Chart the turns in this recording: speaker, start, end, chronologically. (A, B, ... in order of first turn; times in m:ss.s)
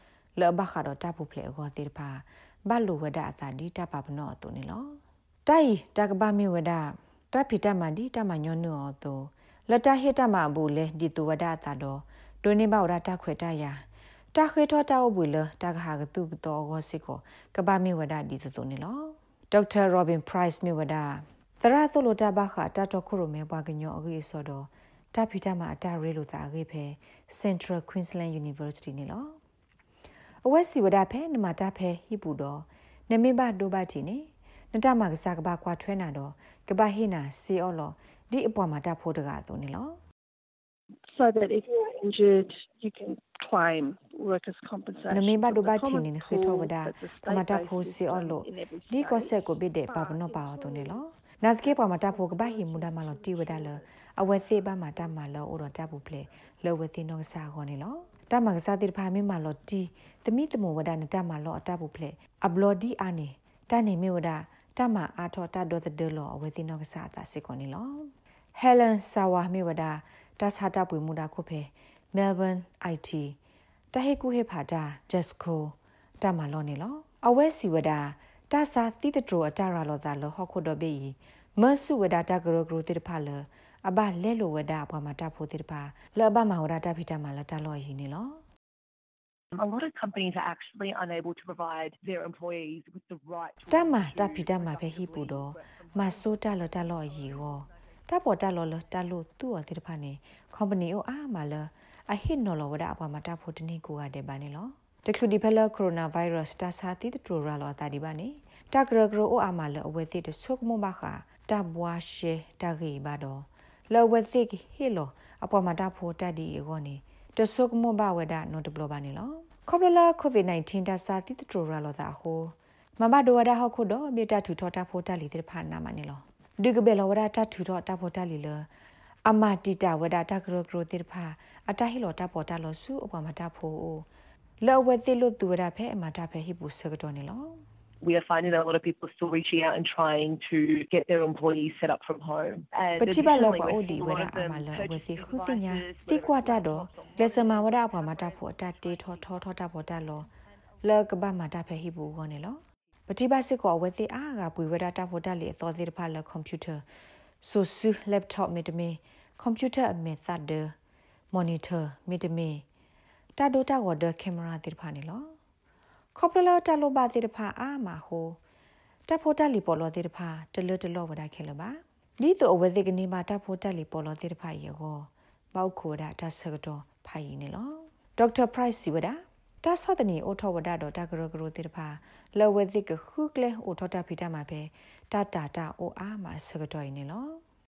0:00.4-0:29.4 A
0:30.4-0:40.0 A
0:41.1-0:51.0 B
0:45.1-1:13.4 A
0:51.6-0:55.6 B
1:13.9-1:28.4 A
1:29.5-1:37.7 C
1:33.7-2:08.7 A
2:09.2-2:14.0 A
2:14.6-2:17.6 A
2:18.0-2:29.4 C
2:23.0-2:30.2 A
2:30.8-2:36.8 A
2:37.4-2:40.7 A
2:41.3-2:42.6 A
2:43.4-2:45.3 A
2:46.1-2:48.4 A
2:49.1-3:07.4 A